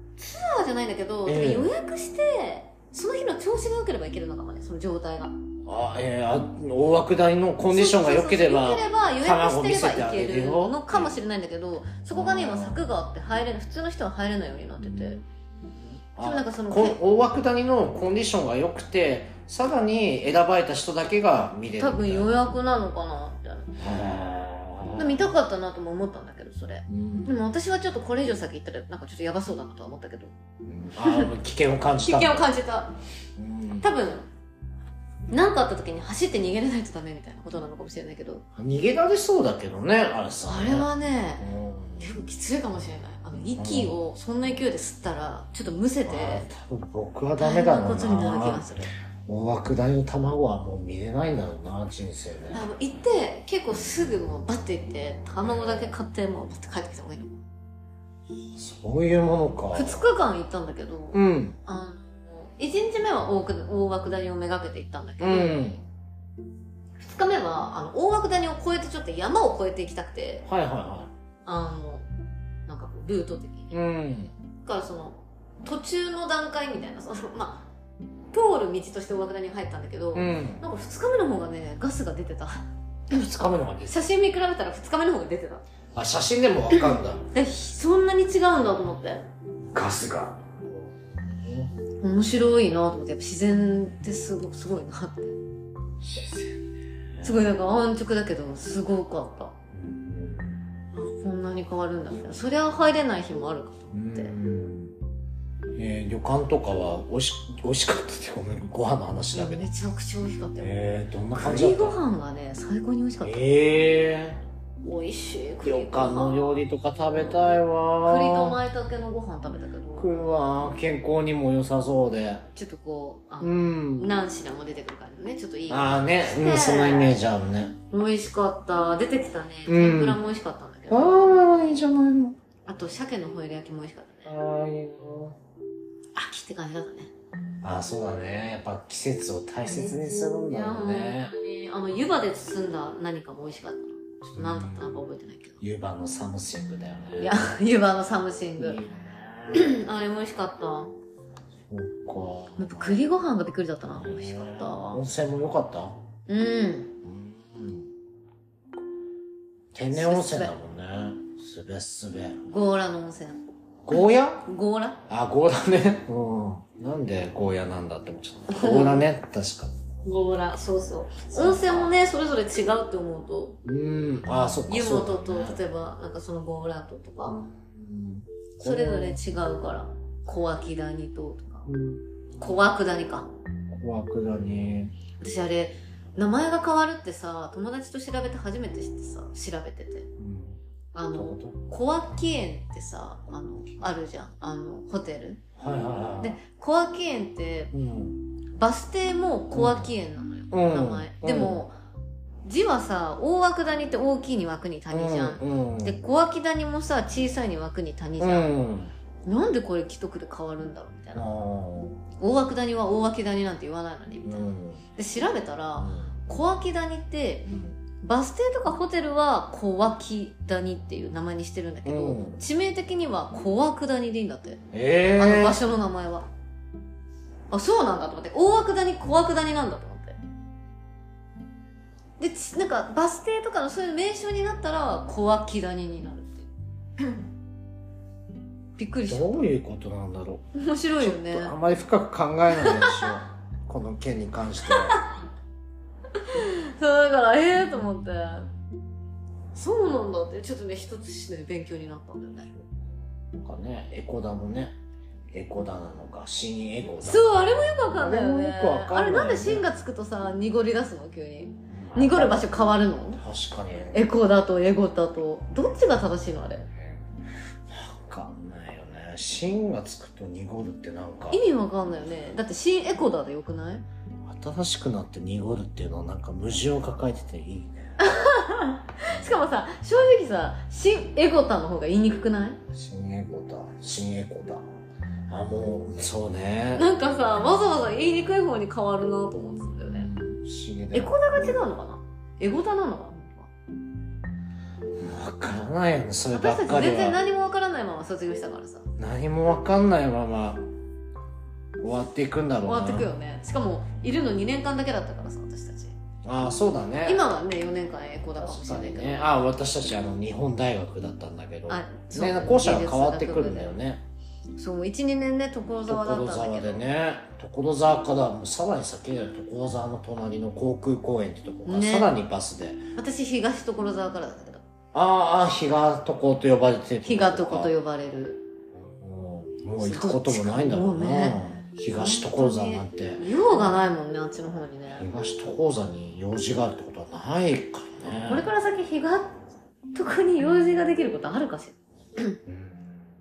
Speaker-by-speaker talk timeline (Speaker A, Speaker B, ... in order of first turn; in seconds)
Speaker A: 0.2-5.3, 7.7-15.2, 16.2-17.0, 21.8-23.7, 24.9-30.3, 31.0-31.3, 32.0-32.9, 33.8-34.3, 35.3-38.4, 40.5-46.5, 47.4-48.9, 52.5-57.4, 59.7-65.8, 67.0-70.5, 71.5-72.0, 72.7-73.8, 74.6-77.7, 78.3-82.7, 83.9-85.6, 86.7-89.3, 92.0-95.4, 97.2-99.5, 100.9-104.3, 109.3-110.7, 111.4-113.4, 114.8-116.6, 118.0-120.1, 122.5-127.2, 127.9-131.2, 132.7-134.3, 136.1-137.1, 139.7-145.6, 147.2-148.8, 149.5-150.9, 152.6-155.0, 156.3-156.9, 159.8-160.5, 162.5-163.4, 164.0-165.0, 168.5-169.0, 170.0-173.6, 174.7-177.4, 178.6-181.7, 182.4-183.3, 185.2-190.1, 190.9-195.4, 196.2-197.7, 198.6-201.7, 202.4-208.5, 209.2-211.3, 212.2-224.6, 225.2-226.3, 227.5-230.2, 232.2-236.5, 238.8-239.4, 240.5-241.5, 242.5-243.1, 244.7-245.1, 246.1-248.5, 249.5-252.5, 257.0-263.2, 263.9-266.7, 271.3-273.9, 278.0-282.6, 286.7-290.1, 290.9-293.5, 296.3-298.9, 302.6-305.9, 307.0-309.3, 311.7-313.8, 314.6-316.8, 321.6-322.1, 322.9-324.6, 327.0-328.4, 329.8-335.1, 338.3-339.3, 339.9-342.4
Speaker B: 1.2-1.7, 5.7-11.1, 12.1-12.8, 14.8-15.2, 16.1-22.4, 23.8-25.2, 26.9-27.3, 30.6-32.5, 33.4-33.9, 38.6-40.9, 41.4-42.1, 43.5-44.0, 46.0-48.7, 49.3-52.6, 55.4-55.9, 58.5-60.0, 61.1-61.6, 65.2-65.8, 70.5-71.1, 73.7-74.3, 80.1-80.6, 83.1-84.0, 85.9-87.2, 89.7-91.7, 96.0-96.6, 97.2-97.5, 99.7-100.6, 103.9-105.0, 105.8-109.7, 110.6-112.0, 113.2-114.4, 115.6-118.6, 120.0-122.4, 123.4-124.1, 125.7-127.8, 129.7-130.2, 130.9-132.4, 134.2-135.4, 137.6-141.3, 144.3-145.0, 145.6-147.4, 148.6-149.8, 151.7-153.0, 153.9-156.0, 157.0-157.9, 159.7-162.4, 163.8-164.4, 165.1-169.7, 171.3-171.9, 173.6-175.6, 177.2-179.2, 181.7-182.1, 183.7-184.9, 190.2-190.6, 191.1-191.6, 195.6-196.4, 197.7-198.2, 199.5-199.9, 200.5-201.6, 204.9-206.0, 208.2-208.9, 211.1-212.0, 214.2-214.8, 215.8-216.2, 217.5-217.8, 221.8-222.4, 224.7-225.6, 239.1-240.5, 241.0-245.0, 253.3-254.7, 255.3-257.3, 257.9-259.6, 261.7-262.5, 263.2-264.1, 267.7-271.4, 274.2-277.9, 282.7-284.6, 285.3-286.9, 289.8-291.6, 295.0-297.2, 299.0-300.7, 301.8-303.1, 306.2-307.2, 308.4-314.0, 315.9-322.9, 324.9-327.7, 328.7-333.2, 335.0-338.5, 342.5-343.0